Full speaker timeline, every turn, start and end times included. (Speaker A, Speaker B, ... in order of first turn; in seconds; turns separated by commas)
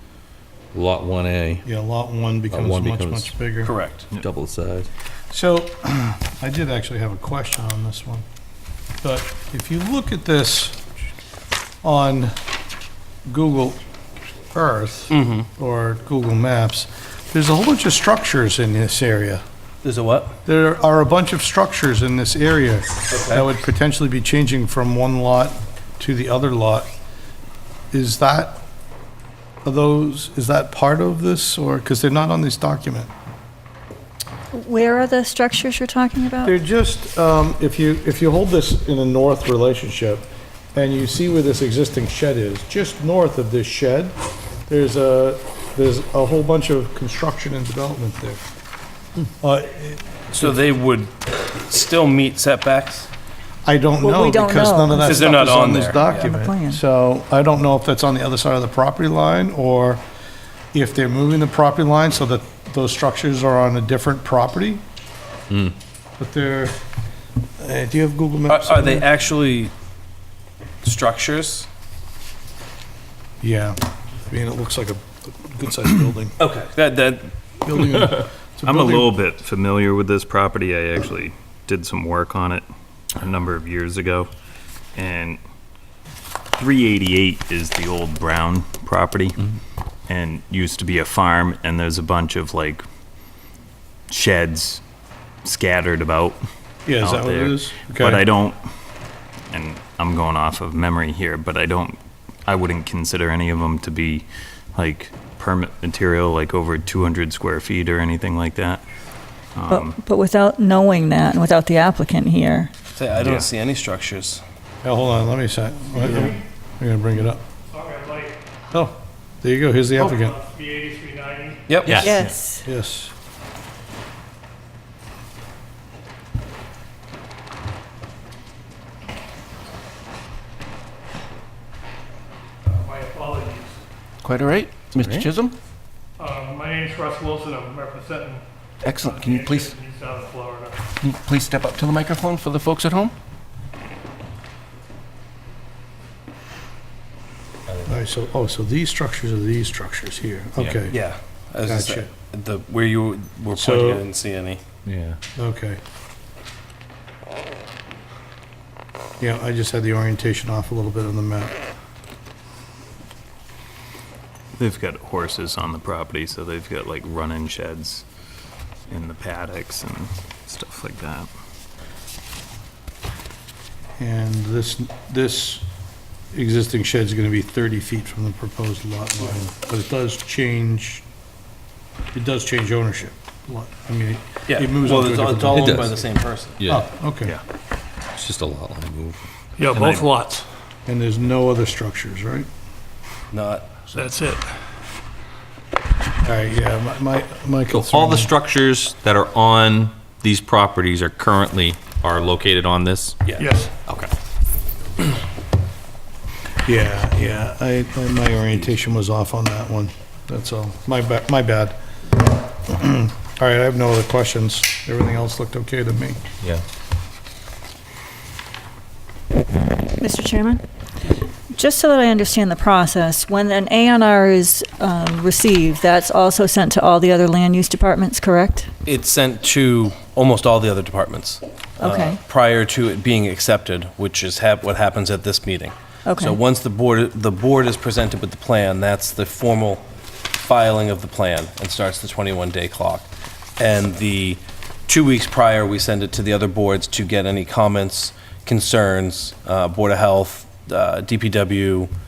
Speaker A: 0.7-1.6, Speaker B: 1.6-3.7, Speaker A: 2.5-3.3, Speaker C: 3.6-4.1, Speaker A: 4.3-4.9, Speaker B: 5.3-8.2, Speaker B: 9.0-10.8, Speaker B: 11.8-12.3, Speaker B: 13.3-13.8, Speaker B: 14.5-19.4, Speaker C: 15.1-15.5, Speaker C: 19.8-20.4, Speaker B: 20.4-26.9, Speaker C: 23.1-23.5, Speaker B: 27.9-28.6, Speaker B: 29.6-33.1, Speaker D: 34.5-36.6, Speaker B: 36.4-44.1, Speaker B: 44.7-48.4, Speaker B: 49.4-50.6, Speaker C: 50.4-53.1, Speaker B: 53.6-60.0, Speaker D: 54.0-55.4, Speaker C: 55.0-56.3, Speaker D: 56.0-56.8, Speaker B: 60.7-64.8, Speaker B: 66.2-66.7, Speaker B: 67.6-69.0, Speaker C: 68.5-69.7, Speaker C: 70.8-71.7, Speaker B: 73.4-76.3, Speaker C: 76.4-77.3, Speaker B: 77.6-79.1, Speaker E: 78.6-82.6, Speaker E: 83.2-84.3, Speaker E: 84.9-85.4, Speaker E: 86.6-89.4, Speaker E: 90.1-92.8, Speaker E: 94.1-94.8, Speaker E: 95.4-96.4, Speaker B: 96.8-98.2, Speaker E: 97.0-98.6, Speaker E: 99.5-108.8, Speaker E: 109.5-110.0, Speaker D: 109.7-112.7, Speaker C: 112.9-114.4, Speaker E: 113.2-113.5, Speaker B: 114.8-117.4, Speaker F: 115.9-116.4, Speaker F: 117.7-118.4, Speaker B: 118.7-120.3, Speaker F: 120.0-121.9, Speaker C: 121.7-122.1, Speaker A: 121.8-122.2, Speaker D: 122.0-122.7, Speaker B: 122.6-123.1, Speaker F: 132.6-133.8, Speaker G: 134.2-135.6, Speaker F: 136.2-140.9, Speaker G: 138.8-139.7, Speaker G: 141.0-143.1, Speaker B: 147.8-151.0, Speaker C: 150.9-154.6, Speaker B: 151.6-152.1, Speaker B: 153.6-154.0, Speaker A: 154.8-155.2, Speaker B: 155.3-155.8, Speaker B: 159.2-161.6, Speaker E: 164.6-168.0, Speaker E: 168.9-171.3, Speaker B: 174.0-175.6, Speaker B: 176.3-181.0, Speaker B: 182.1-186.1, Speaker C: 184.5-186.7, Speaker A: 185.6-185.8, Speaker B: 186.7-187.4, Speaker A: 188.2-189.2, Speaker F: 189.6-190.5, Speaker E: 189.7-190.0, Speaker B: 190.8-192.5, Speaker C: 193.3-193.9, Speaker F: 193.9-194.5, Speaker B: 196.2-198.3, Speaker A: 197.7-203.2, Speaker F: 203.4-203.7, Speaker B: 206.6-211.8, Speaker B: 212.7-216.2, Speaker D: 220.0-220.6, Speaker D: 221.5-228.7, Speaker C: 228.8-239.8, Speaker D: 231.8-232.2, Speaker D: 236.0-236.4, Speaker C: 240.4-251.9